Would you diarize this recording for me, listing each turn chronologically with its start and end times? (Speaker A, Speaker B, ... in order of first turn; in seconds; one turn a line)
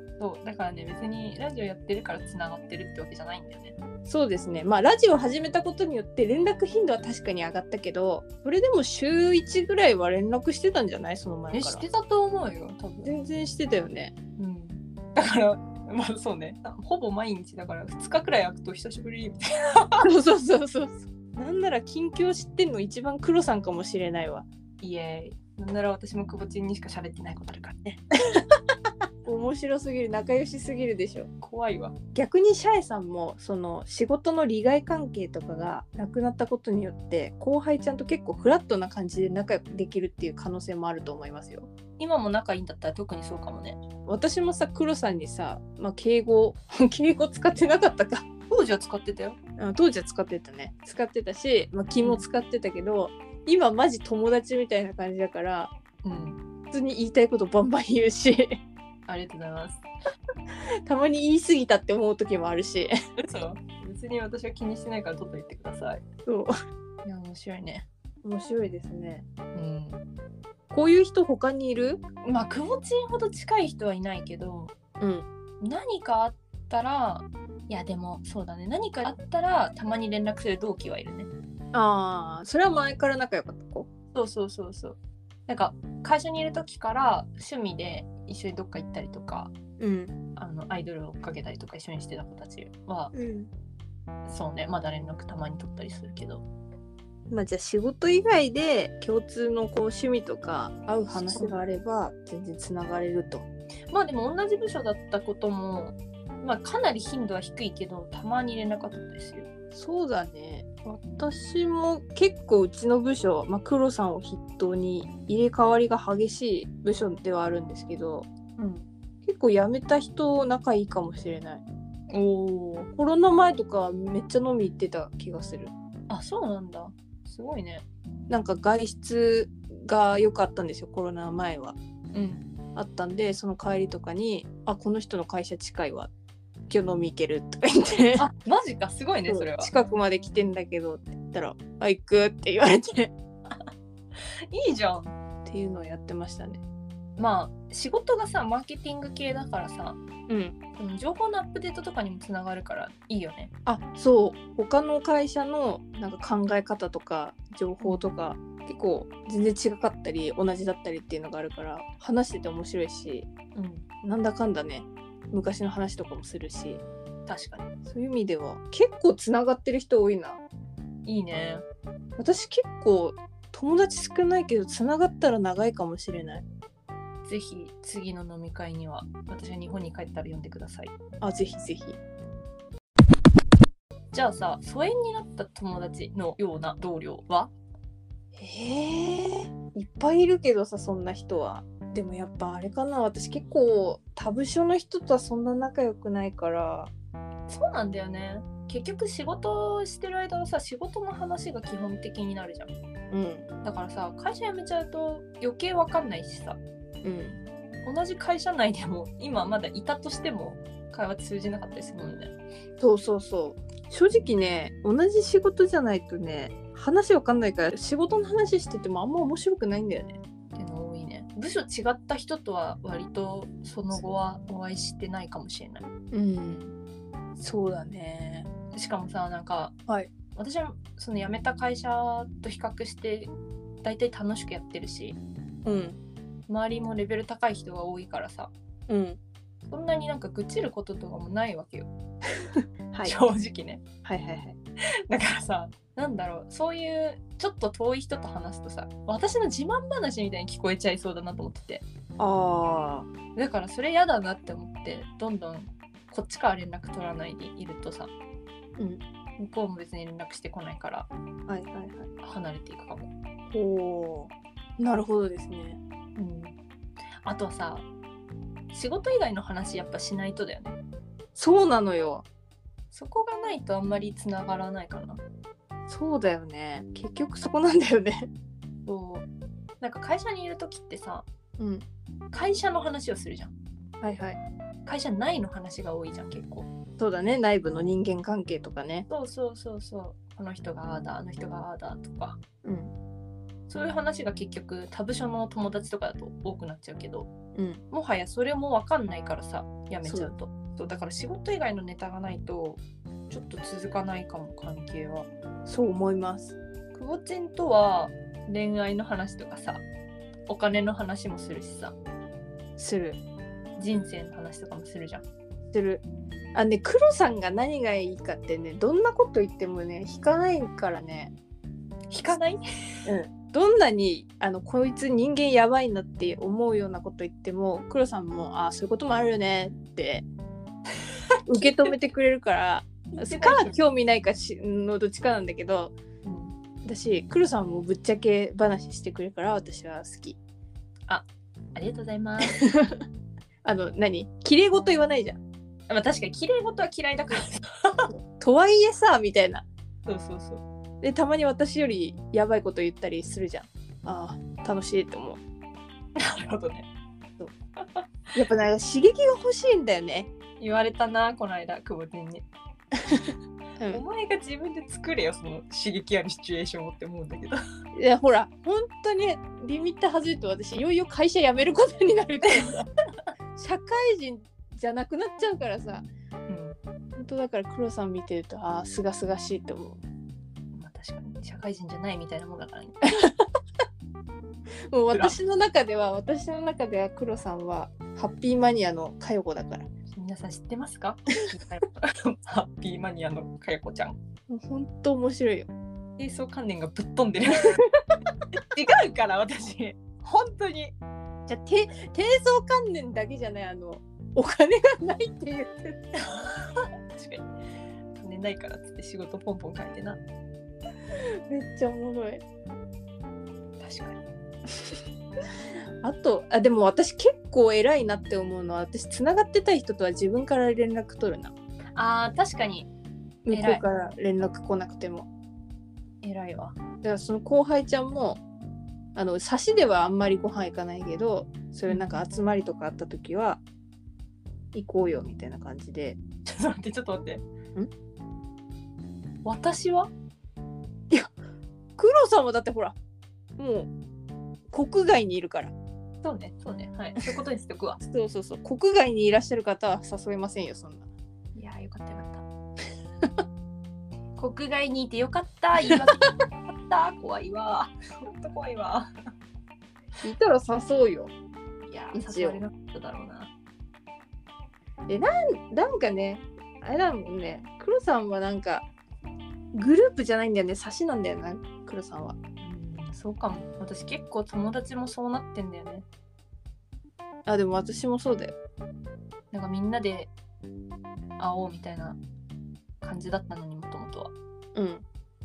Speaker A: 0.2-3.7
Speaker B: 4.0-11.8
Speaker A: 11.5-13.1
Speaker B: 13.0-14.1
Speaker A: 14.4-20.1
Speaker B: 20.0-24.4
Speaker A: 24.8-28.0
Speaker B: 29.2-31.3
Speaker A: 31.4-31.9
Speaker B: 32.1-41.7
Speaker A: 42.0-43.8
Speaker B: 44.0-48.2
Speaker A: 48.5-49.4
Speaker B: 49.6-55.7
Speaker A: 56.0-56.4
Speaker B: 56.7-58.6
Speaker A: 59.1-59.8
Speaker B: 60.9-62.9
Speaker A: 63.2-66.0
Speaker B: 66.2-66.5
Speaker A: 67.0-67.8
Speaker B: 68.2-69.2
Speaker A: 69.5-70.0
Speaker B: 70.7-72.0
Speaker A: 72.2-74.7
Speaker B: 75.0-75.2
Speaker A: 75.6-81.3
Speaker B: 81.7-83.9
Speaker A: 84.1-85.0
Speaker A: 85.5-89.5
Speaker B: 89.8-90.1
Speaker A: 90.3-93.1
Speaker B: 93.1-93.5
Speaker A: 94.3-96.4
Speaker B: 97.3-103.4
Speaker A: 101.1-101.6
Speaker A: 103.9-109.5
Speaker B: 109.7-118.3
Speaker A: 118.6-118.8
Speaker B: 119.2-121.6
Speaker A: 122.1-122.9
Speaker B: 123.0-125.7
Speaker A: 126.1-127.8
Speaker B: 128.3-131.8
Speaker A: 132.1-132.4
Speaker B: 132.8-136.1
Speaker B: 136.7-138.2
Speaker A: 138.2-139.7
Speaker B: 139.3-143.1
Speaker A: 144.5-145.1
Speaker B: 145.4-146.6
Speaker A: 147.2-150.0
Speaker B: 150.3-150.6
Speaker A: 150.8-153.5
Speaker B: 153.7-163.3
Speaker A: 157.8-158.1
Speaker A: 163.5-163.8
Speaker B: 164.0-166.8
Speaker A: 167.3-167.7
Speaker B: 167.8-170.4
Speaker A: 171.1-171.6
Speaker B: 172.2-176.4
Speaker A: 177.2-180.9
Speaker B: 181.2-182.0
Speaker A: 184.1-187.5
Speaker B: 188.3-196.9
Speaker A: 197.5-202.7
Speaker B: 203.1-203.5
Speaker A: 203.6-206.6
Speaker B: 207.0-207.4
Speaker A: 207.8-212.3
Speaker B: 212.8-220.2
Speaker A: 220.5-225.8
Speaker B: 226.1-226.7
Speaker B: 227.4-228.5
Speaker A: 228.7-229.7
Speaker A: 230.3-233.3
Speaker A: 233.8-235.2
Speaker B: 235.6-236.0
Speaker A: 236.5-238.5
Speaker B: 238.9-239.2
Speaker A: 239.7-241.9
Speaker A: 243.0-243.8
Speaker B: 244.0-244.6
Speaker A: 245.1-251.8
Speaker B: 252.2-253.1
Speaker A: 253.3-258.1
Speaker A: 259.4-261.1
Speaker B: 261.5-262.1
Speaker A: 262.2-263.1
Speaker B: 263.5-265.8
Speaker A: 266.1-266.6
Speaker A: 267.2-267.9
Speaker A: 268.7-270.8
Speaker B: 271.4-272.2
Speaker A: 272.9-275.2
Speaker B: 275.9-278.3
Speaker A: 278.9-279.3
Speaker A: 279.8-281.2
Speaker B: 281.6-281.9
Speaker A: 282.3-283.5
Speaker B: 284.0-284.4
Speaker A: 284.9-286.7
Speaker B: 287.0-289.1
Speaker A: 289.1-292.4
Speaker B: 292.6-292.9
Speaker A: 293.7-297.3
Speaker B: 297.5-297.8
Speaker A: 297.9-305.3
Speaker B: 300.0-300.3
Speaker B: 305.6-306.6
Speaker A: 306.9-309.8
Speaker A: 310.5-311.9
Speaker B: 312.8-313.2
Speaker A: 313.8-315.2
Speaker B: 315.7-316.0
Speaker B: 316.5-321.3
Speaker A: 322.1-322.6
Speaker B: 323.1-330.2
Speaker B: 331.4-335.9
Speaker A: 331.5-331.9
Speaker A: 333.1-333.8
Speaker A: 336.2-336.5
Speaker B: 336.8-340.4
Speaker A: 341.1-342.6
Speaker B: 342.5-343.0
Speaker B: 343.6-345.4
Speaker A: 345.9-348.1
Speaker B: 348.1-349.6
Speaker A: 350.1-350.6
Speaker B: 351.0-355.4
Speaker A: 356.1-356.9
Speaker B: 358.3-360.3
Speaker A: 360.6-362.4
Speaker B: 363.0-364.0
Speaker A: 363.9-367.6
Speaker B: 367.9-372.8
Speaker A: 372.5-372.9
Speaker B: 373.6-376.1
Speaker A: 376.5-376.8
Speaker B: 377.2-380.0
Speaker A: 380.7-383.1
Speaker B: 384.9-389.9
Speaker A: 390.1-394.2
Speaker B: 394.5-395.7
Speaker A: 396.2-397.8
Speaker A: 398.6-400.9
Speaker B: 401.5-406.0
Speaker A: 406.2-407.5
Speaker A: 408.1-410.2
Speaker B: 411.5-412.4
Speaker A: 413.8-414.2
Speaker B: 416.0-421.5
Speaker A: 421.9-422.9
Speaker B: 423.4-425.3
Speaker A: 423.5-423.8
Speaker A: 426.2-426.8
Speaker B: 427.0-428.4
Speaker B: 429.1-433.6
Speaker A: 431.9-432.2
Speaker B: 434.7-436.2
Speaker A: 436.4-437.4
Speaker A: 439.4-440.1
Speaker B: 442.0-442.9
Speaker B: 443.6-443.9
Speaker B: 444.7-445.7
Speaker A: 446.2-448.0
Speaker B: 448.0-451.1
Speaker A: 451.6-452.4
Speaker A: 454.4-459.1
Speaker B: 460.2-461.3
Speaker A: 461.9-463.5
Speaker B: 462.1-462.6
Speaker B: 465.1-468.9
Speaker B: 469.7-472.4
Speaker A: 472.6-476.1
Speaker B: 477.4-478.5
Speaker A: 479.5-480.3
Speaker A: 481.4-482.2
Speaker A: 483.0-484.3
Speaker B: 484.7-485.0